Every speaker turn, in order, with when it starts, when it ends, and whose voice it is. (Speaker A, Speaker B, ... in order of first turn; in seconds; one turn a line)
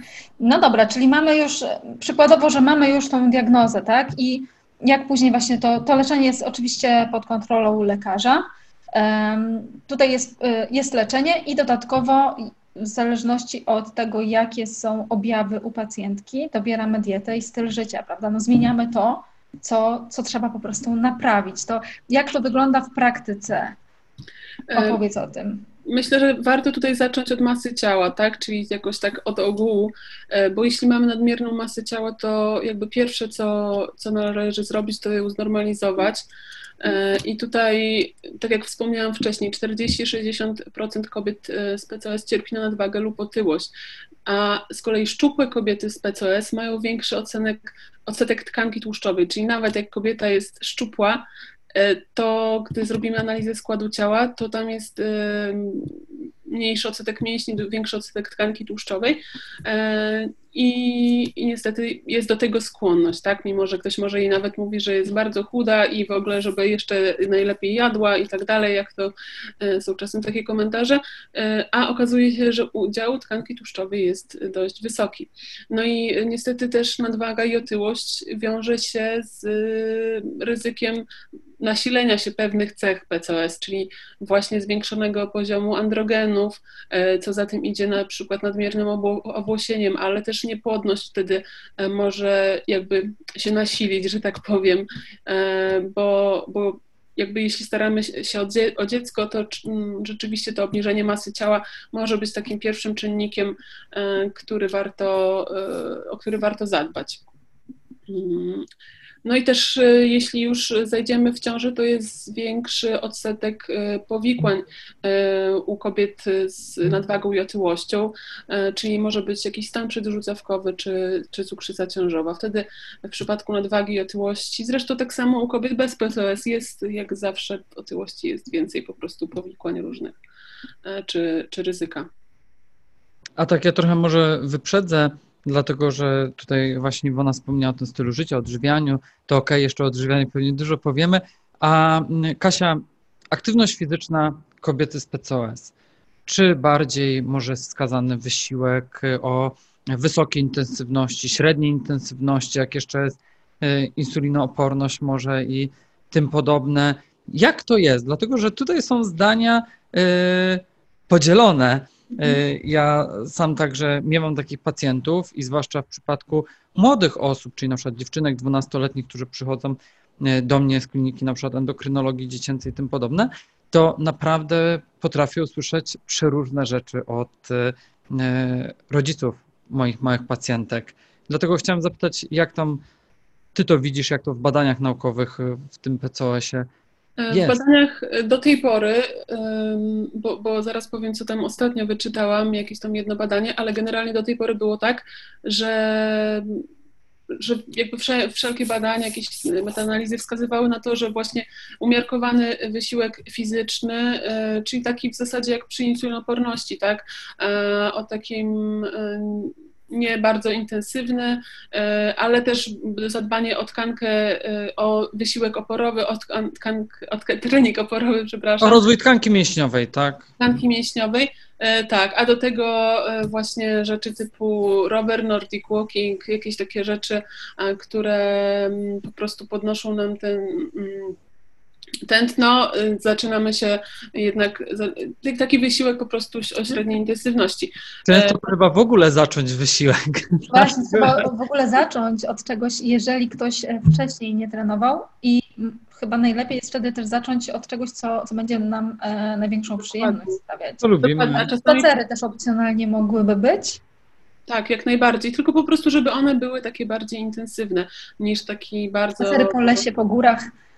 Speaker A: 0.4-23.8
Speaker B: 24.7-25.0
Speaker A: 24.7-25.6
Speaker B: 25.9-36.2
Speaker B: 36.8-43.7
Speaker B: 44.3-81.1
Speaker B: 81.6-107.2
Speaker B: 108.1-108.7
Speaker B: 109.2-130.2
Speaker B: 130.8-132.1
Speaker C: 133.4-145.7
Speaker C: 146.3-182.8
Speaker C: 183.6-186.7
Speaker B: 187.2-196.7
Speaker C: 187.3-187.6
Speaker B: 197.3-218.8
Speaker C: 218.6-220.3
Speaker B: 220.4-231.2
Speaker B: 232.1-238.4
Speaker C: 238.1-241.3
Speaker A: 240.5-250.8
Speaker B: 249.9-250.3
Speaker C: 250.8-251.5
Speaker B: 251.0-251.9
Speaker A: 251.6-253.8
Speaker B: 254.5-259.9
Speaker A: 259.2-260.5